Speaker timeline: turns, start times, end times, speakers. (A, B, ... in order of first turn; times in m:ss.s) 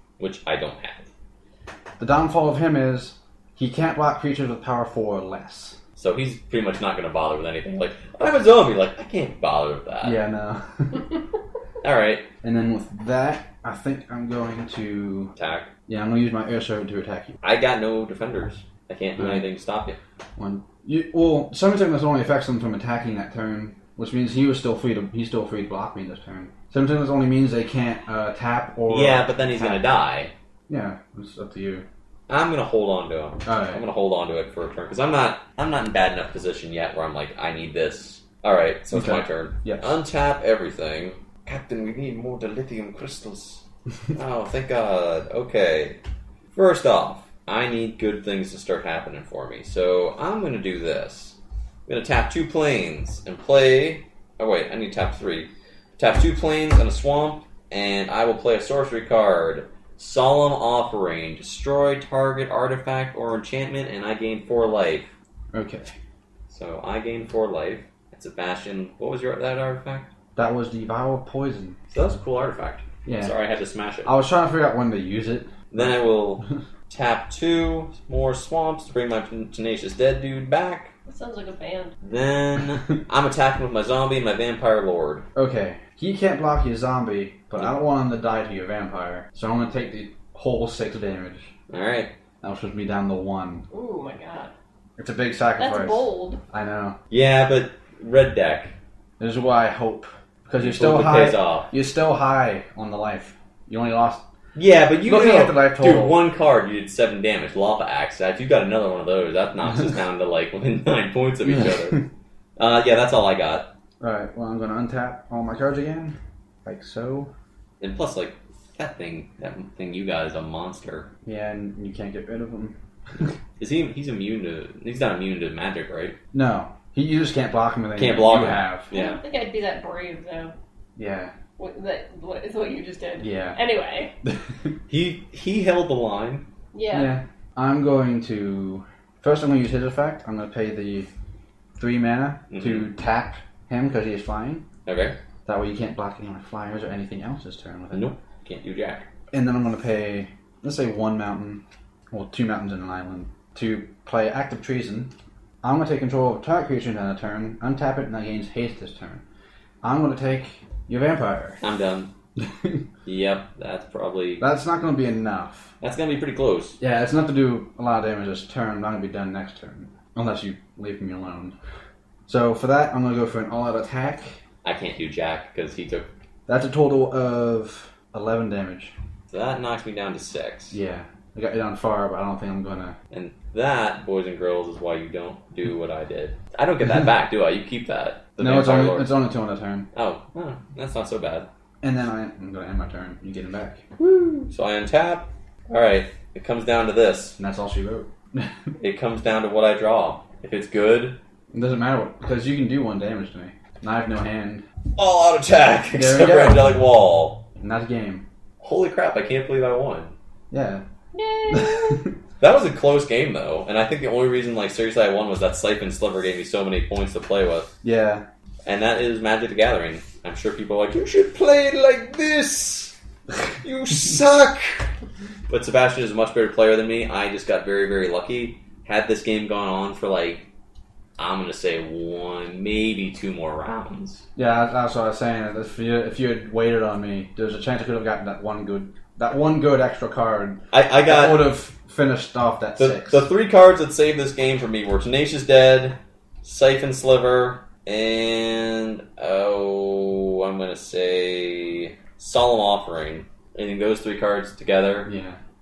0:00.2-0:01.1 A
0:02.0-0:05.8 B
0:06.0-0:10.2 A
0:10.0-0:11.1 B
0:11.8-0:12.3 A
0:12.4-0:15.3 B
0:15.4-0:15.7 A
0:15.9-0:17.4 B
0:17.4-0:20.0 A
0:19.2-0:19.5 B
0:20.4-0:29.8 B
0:28.9-0:30.3 A
0:30.7-0:31.8 B
0:32.3-0:46.0 A
0:33.4-0:33.8 B
0:38.9-0:40.0 B
0:46.5-1:05.1 A
1:05.5-1:05.9 B
1:06.5-1:10.1 A
1:10.4-1:11.8 B
1:11.9-1:14.1 A
1:13.0-1:13.4 B
1:14.0-1:16.5 B
1:15.7-1:20.9 A
1:21.1-1:21.9 C
1:22.0-1:25.2 A
1:25.3-1:31.5 B
1:31.7-1:32.1 A
1:32.4-1:33.6 B
1:33.7-1:34.5 C
1:35.0-1:37.0 B
1:35.6-1:36.4 C
1:37.1-1:38.7 A
1:39.2-1:44.2 B
1:40.6-1:41.7 A
1:44.5-1:52.1 A
1:45.0-1:46.2 B
1:51.4-1:51.9 B
1:52.6-1:53.7 A
1:54.0-1:57.3 B
1:57.8-2:01.1 A
2:01.2-2:03.3 B
2:03.6-2:06.2 A
2:06.3-2:08.9 B
2:08.0-2:09.2 A
2:08.9-2:10.5 C
2:11.0-2:11.3 B
2:11.6-2:14.1 C
2:13.2-2:13.6 B
2:14.9-2:16.4 A
2:16.7-2:17.2 C
2:16.9-2:21.1 B
2:21.8-2:24.6 B
2:22.5-2:22.9 A
2:24.8-2:25.2 A
2:25.4-2:28.1 B
2:27.9-2:29.0 A
2:29.3-2:35.1 B
2:35.6-2:39.2 B
2:39.8-2:41.6 B
2:41.6-2:42.1 A
2:42.5-2:42.8 B
2:43.0-2:44.4 A
2:44.4-2:45.7 B
2:45.8-2:46.8 A
2:46.8-2:51.5 B
2:52.3-2:54.4 B
2:54.6-2:56.1 A
2:56.5-2:58.9 B
2:59.3-3:00.8 A
3:00.7-3:03.0 B
3:03.1-3:09.2 A
3:08.4-3:09.9 B
3:09.9-3:11.5 A
3:11.8-3:13.8 B
3:14.4-3:17.4 A
3:17.4-3:18.5 B
3:18.8-3:21.2 A
3:21.5-3:24.6 B
3:24.9-3:27.4 A
3:25.9-3:26.8 B
3:27.6-3:28.2 B
3:28.6-3:30.1 A
3:30.5-3:30.8 B
3:31.1-3:32.0 C
3:31.5-3:32.1 B
3:32.4-3:37.7 A
3:37.8-3:38.2 B
3:38.6-3:43.0 A
3:43.6-3:44.9 A
3:45.5-3:50.5 A
3:51.2-3:54.2 A
3:54.4-4:03.3 B
4:00.7-4:01.5 A
4:02.8-4:15.1 A
4:15.0-4:15.4 B